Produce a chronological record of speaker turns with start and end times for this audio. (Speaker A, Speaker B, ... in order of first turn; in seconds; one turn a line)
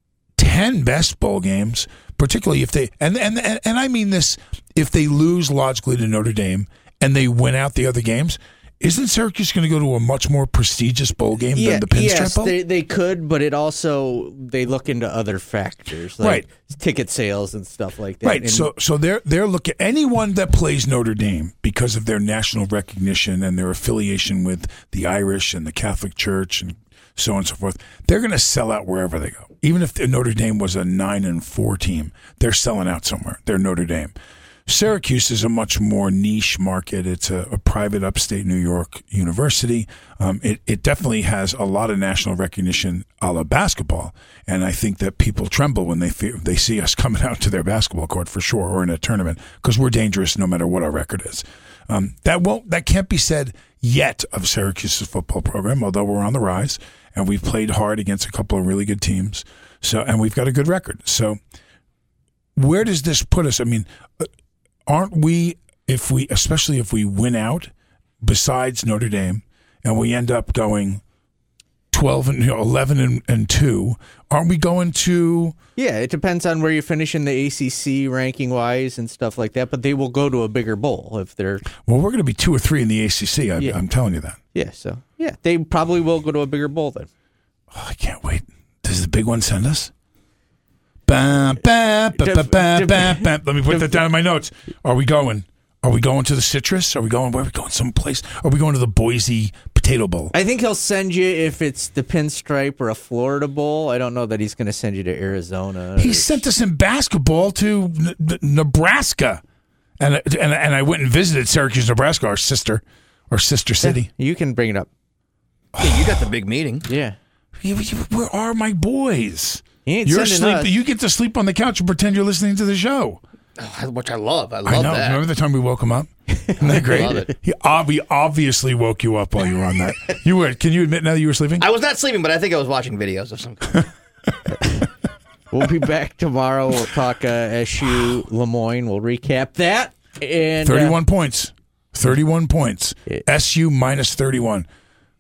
Speaker A: 0.4-12.6
Speaker B: 11.5-18.7
Speaker A: 16.2-16.4
Speaker A: 18.2-34.1
Speaker A: 34.7-61.4
Speaker A: 62.5-64.3
Speaker A: 64.9-71.0
Speaker A: 71.9-75.5
Speaker B: 75.8-81.7
Speaker A: 81.9-84.4
Speaker B: 84.5-87.1
Speaker A: 87.7-89.9
Speaker A: 91.0-100.3
Speaker B: 92.2-94.0
Speaker B: 100.3-106.4
Speaker A: 106.0-109.4
Speaker A: 110.0-114.1
Speaker B: 113.8-114.9
Speaker A: 115.7-116.2
Speaker C: 115.8-116.8
Speaker B: 116.9-117.2
Speaker A: 117.6-123.2
Speaker B: 119.9-120.7
Speaker C: 123.6-125.2
Speaker A: 124.6-131.7
Speaker B: 126.5-127.3
Speaker C: 126.6-127.3
Speaker C: 131.6-133.9
Speaker B: 135.5-141.0
Speaker A: 140.6-144.7